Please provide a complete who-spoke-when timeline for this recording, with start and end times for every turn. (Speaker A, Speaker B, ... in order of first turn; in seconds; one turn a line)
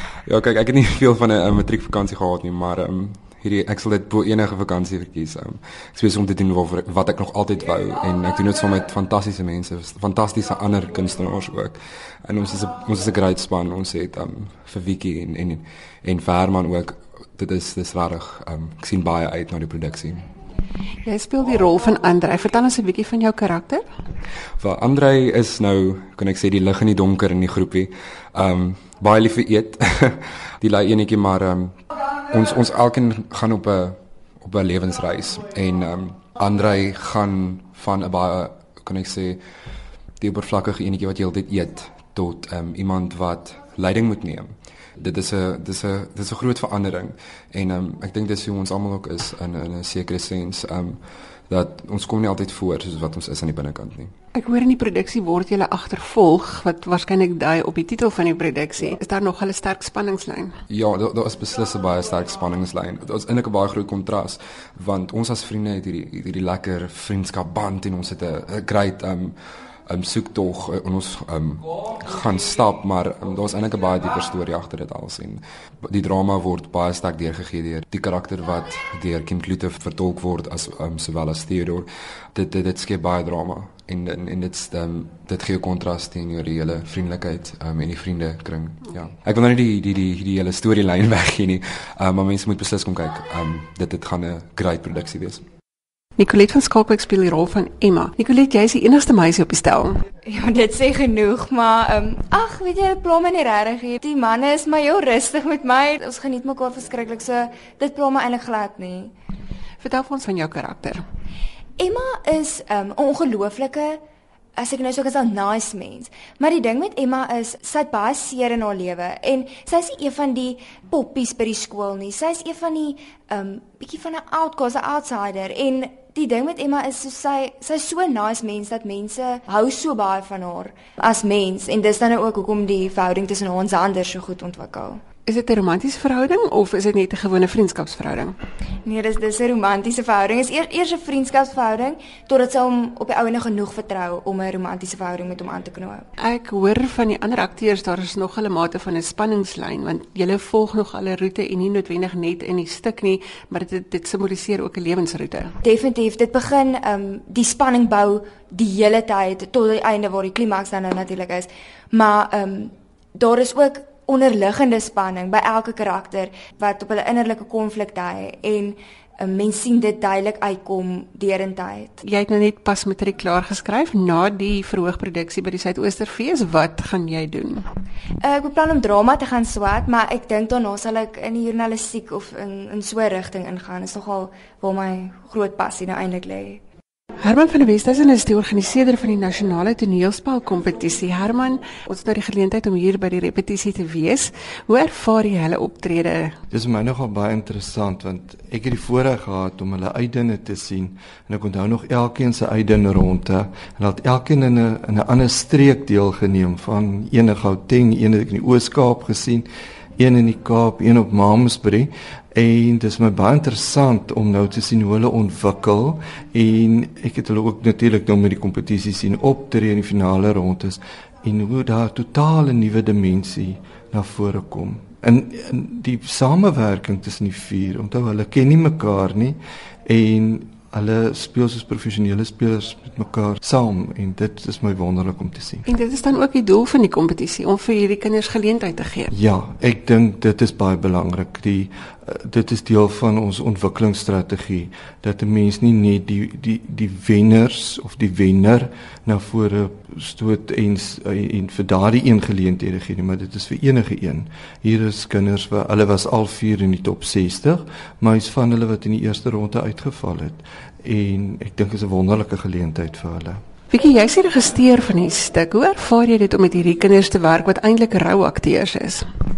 Speaker A: 0.3-20.2
Speaker B: 21.0-23.8
Speaker A: 24.6-39.4
Speaker A: 40.2-54.1
Speaker B: 54.3-60.5
Speaker A: 60.7-69.3
Speaker A: 69.9-95.4
Speaker B: 96.2-100.0
Speaker C: 100.2-109.1
Speaker B: 109.8-111.0
Speaker C: 111.8-114.0
Speaker C: 114.6-135.0
Speaker B: 135.2-138.3
Speaker C: 138.8-146.1
Speaker B: 146.2-155.5
Speaker C: 155.6-172.0
Speaker B: 172.0-177.6
Speaker C: 178.2-186.6
Speaker B: 187.2-196.3
Speaker D: 196.5-235.6
Speaker B: 235.7-239.1
Speaker D: 239.1-263.4
Speaker B: 263.7-269.0